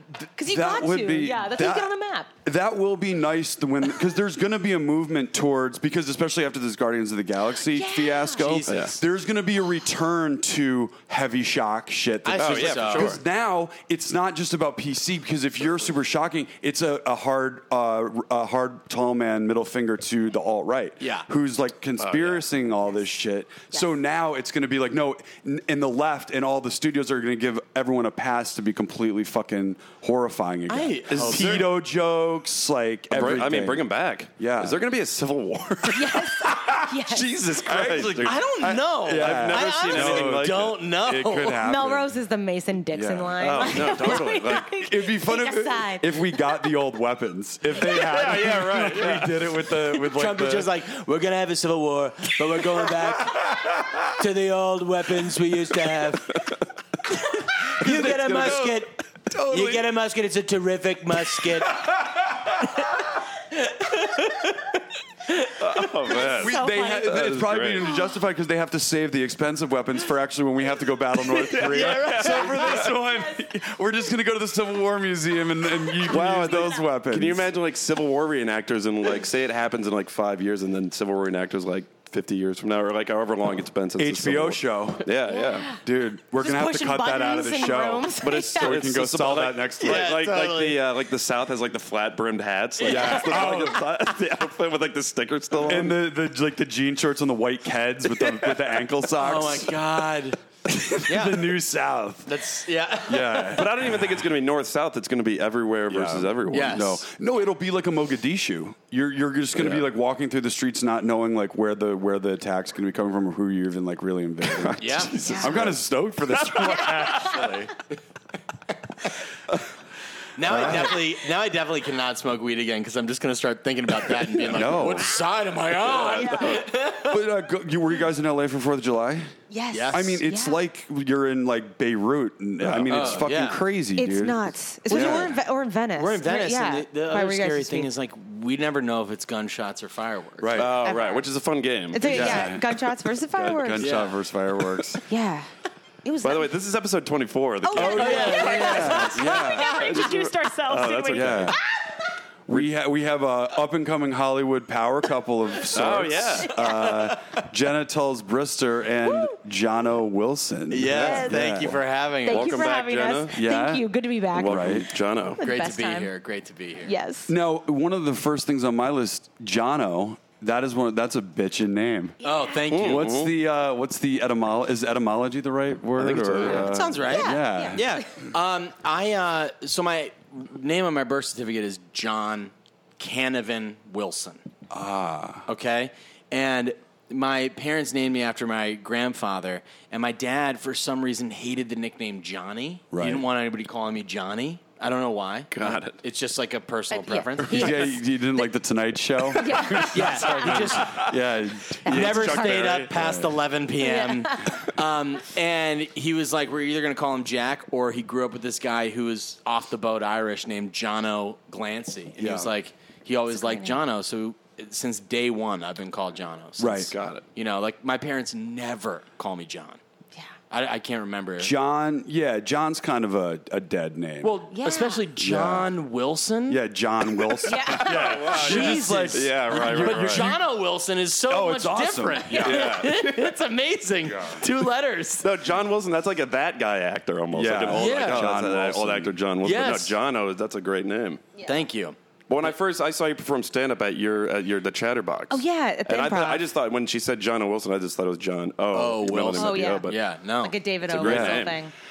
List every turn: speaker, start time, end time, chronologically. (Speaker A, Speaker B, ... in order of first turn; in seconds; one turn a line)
Speaker A: 0.2-1.9
Speaker B: 0.4-2.3
Speaker A: 2.4-34.8
Speaker B: 7.6-8.6
Speaker C: 8.4-9.0
Speaker D: 8.7-8.9
Speaker C: 12.2-13.2
Speaker D: 12.3-13.2
Speaker C: 21.0-21.3
Speaker D: 22.0-22.5
Speaker C: 30.7-31.7
Speaker D: 31.2-31.8
Speaker D: 33.1-40.8
Speaker B: 35.9-37.3
Speaker A: 37.6-42.1
Speaker C: 38.2-41.6
Speaker B: 41.5-46.5
Speaker A: 42.9-44.2
Speaker D: 43.4-44.8
Speaker A: 44.8-50.7
Speaker D: 47.8-49.4
Speaker C: 50.0-56.5
Speaker C: 57.1-66.3
Speaker A: 57.7-59.9
Speaker D: 65.6-67.9
Speaker B: 66.3-67.2
Speaker A: 66.3-77.5
Speaker B: 67.8-68.1
Speaker C: 71.2-72.9
Speaker D: 71.5-73.0
Speaker B: 72.5-73.5
Speaker D: 76.1-85.8
Speaker B: 76.2-76.8
Speaker A: 84.0-85.2
Speaker B: 85.3-85.8
Speaker A: 85.8-90.2
Speaker B: 86.3-88.8
Speaker D: 88.2-96.0
Speaker C: 89.8-90.8
Speaker C: 92.8-93.8
Speaker A: 92.8-93.9
Speaker A: 95.6-99.8
Speaker D: 98.2-98.7
Speaker C: 99.2-100.4
Speaker A: 100.7-102.4
Speaker C: 101.0-101.6
Speaker C: 102.3-103.6
Speaker A: 103.0-104.2
Speaker D: 103.5-107.0
Speaker A: 105.9-117.6
Speaker C: 106.5-107.0
Speaker D: 109.6-109.9
Speaker D: 114.4-117.4
Speaker C: 114.8-115.3
Speaker B: 115.2-115.5
Speaker C: 117.1-117.7
Speaker C: 120.4-127.2
Speaker A: 120.4-121.0
Speaker D: 124.4-125.1
Speaker A: 124.5-125.1
Speaker D: 125.7-126.7
Speaker B: 126.1-126.6
Speaker A: 127.0-129.3
Speaker B: 129.5-130.6
Speaker C: 129.7-130.2
Speaker A: 129.9-135.3
Speaker D: 132.6-133.3
Speaker C: 132.9-133.7
Speaker B: 134.0-137.9
Speaker C: 134.9-135.4
Speaker C: 136.0-140.6
Speaker A: 140.4-140.9
Speaker D: 140.6-142.6
Speaker B: 140.8-141.2
Speaker B: 141.9-144.0
Speaker A: 142.1-142.7
Speaker D: 143.4-143.7
Speaker A: 143.4-145.0
Speaker C: 143.8-144.8
Speaker B: 145.1-145.5
Speaker B: 146.0-146.6
Speaker D: 146.2-151.6
Speaker B: 147.7-152.0
Speaker A: 147.8-150.1
Speaker C: 147.8-149.5
Speaker A: 151.1-151.6
Speaker A: 152.5-161.8
Speaker D: 155.7-156.6
Speaker B: 156.6-157.1
Speaker B: 159.0-159.3
Speaker C: 160.7-162.6
Speaker B: 160.9-161.6
Speaker B: 162.2-166.1
Speaker D: 162.3-163.4
Speaker A: 163.3-163.9
Speaker D: 164.3-165.4
Speaker A: 164.4-164.9
Speaker C: 165.4-166.9
Speaker B: 166.8-167.3
Speaker A: 167.3-172.2
Speaker C: 172.2-173.1
Speaker B: 172.2-172.6
Speaker D: 172.7-173.4
Speaker A: 172.7-178.0
Speaker D: 176.0-176.8
Speaker C: 176.4-184.5
Speaker B: 177.1-177.8
Speaker A: 184.7-185.4
Speaker C: 185.5-198.0
Speaker A: 192.9-193.2
Speaker D: 195.5-196.0
Speaker B: 196.9-197.9
Speaker A: 197.4-203.4
Speaker D: 199.3-201.2
Speaker B: 199.4-200.9
Speaker C: 199.9-201.0
Speaker B: 201.8-202.6
Speaker C: 201.8-219.8
Speaker D: 201.9-202.9
Speaker B: 203.8-204.6
Speaker A: 212.2-212.5
Speaker B: 213.3-213.8
Speaker A: 216.6-216.9
Speaker D: 216.9-217.2
Speaker C: 220.5-221.5
Speaker A: 221.4-224.4
Speaker C: 224.2-226.6
Speaker B: 224.5-225.1
Speaker A: 225.2-225.7
Speaker A: 226.5-230.4
Speaker B: 227.5-228.4
Speaker D: 227.8-230.4
Speaker C: 228.3-235.3
Speaker A: 231.3-232.9
Speaker D: 232.4-233.2
Speaker A: 234.1-234.4
Speaker D: 235.2-241.3
Speaker A: 237.3-239.2
Speaker C: 237.7-238.2
Speaker C: 239.4-239.9
Speaker B: 241.4-241.6
Speaker C: 241.4-242.0
Speaker D: 242.3-250.0
Speaker B: 245.3-246.4
Speaker C: 248.7-250.6
Speaker B: 249.3-249.9
Speaker B: 250.4-251.7
Speaker D: 250.8-251.6
Speaker A: 251.0-251.6